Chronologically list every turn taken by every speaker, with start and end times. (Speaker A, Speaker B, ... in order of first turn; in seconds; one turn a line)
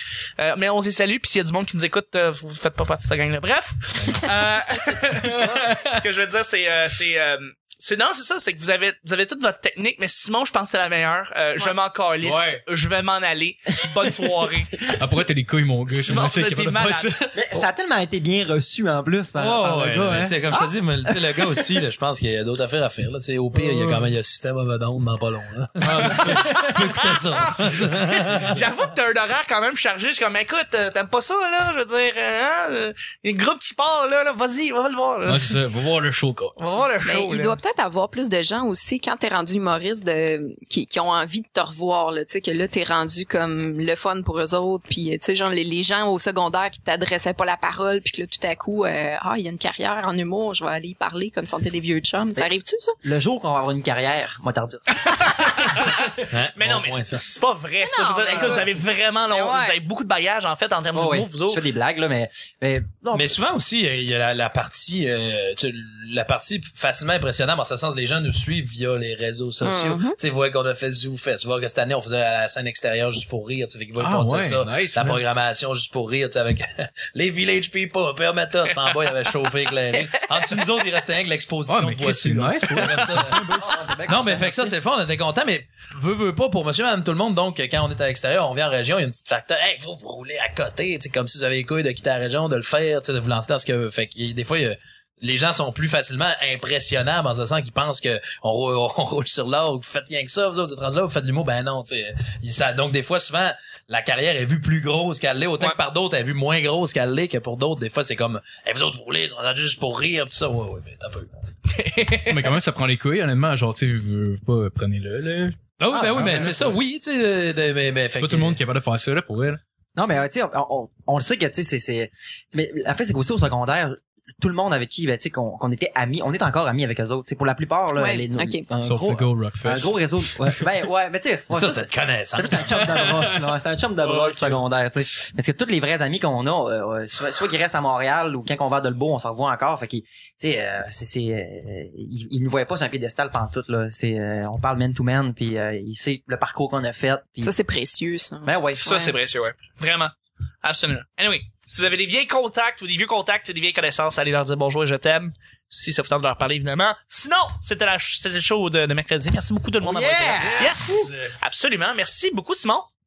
Speaker A: 0.4-14.9
Speaker B: 4.0-4.3
Speaker B: 5.0-6.0
Speaker B: 12.2-12.6
Speaker B: 14.9-17.4
Speaker A: 15.9-17.1
Speaker C: 17.3-21.3
Speaker D: 19.4-28.6
Speaker B: 23.5-24.1
Speaker B: 25.8-26.6
Speaker A: 26.1-35.6
Speaker B: 35.2-36.6
Speaker A: 36.6-37.6
Speaker E: 37.0-53.0
Speaker C: 53.0-55.5
Speaker A: 55.0-61.6
Speaker D: 56.3-57.3
Speaker E: 57.8-59.8
Speaker C: 60.9-63.4
Speaker D: 63.1-83.5
Speaker E: 69.6-70.2
Speaker B: 74.0-75.2
Speaker E: 80.0-80.2
Speaker B: 81.7-83.9
Speaker C: 83.3-84.8
Speaker D: 84.1-111.5
Speaker A: 111.7-112.6
Speaker B: 112.3-116.8
Speaker D: 115.8-118.6
Speaker C: 115.9-116.8
Speaker B: 118.2-119.6
Speaker C: 120.0-147.5
Speaker E: 128.0-128.6
Speaker B: 128.8-130.6
Speaker D: 131.5-133.2
Speaker B: 132.7-133.4
Speaker B: 134.0-134.6
Speaker E: 147.4-149.2
Speaker C: 148.4-149.0
Speaker A: 148.8-162.9
Speaker C: 159.8-161.1
Speaker D: 160.4-161.3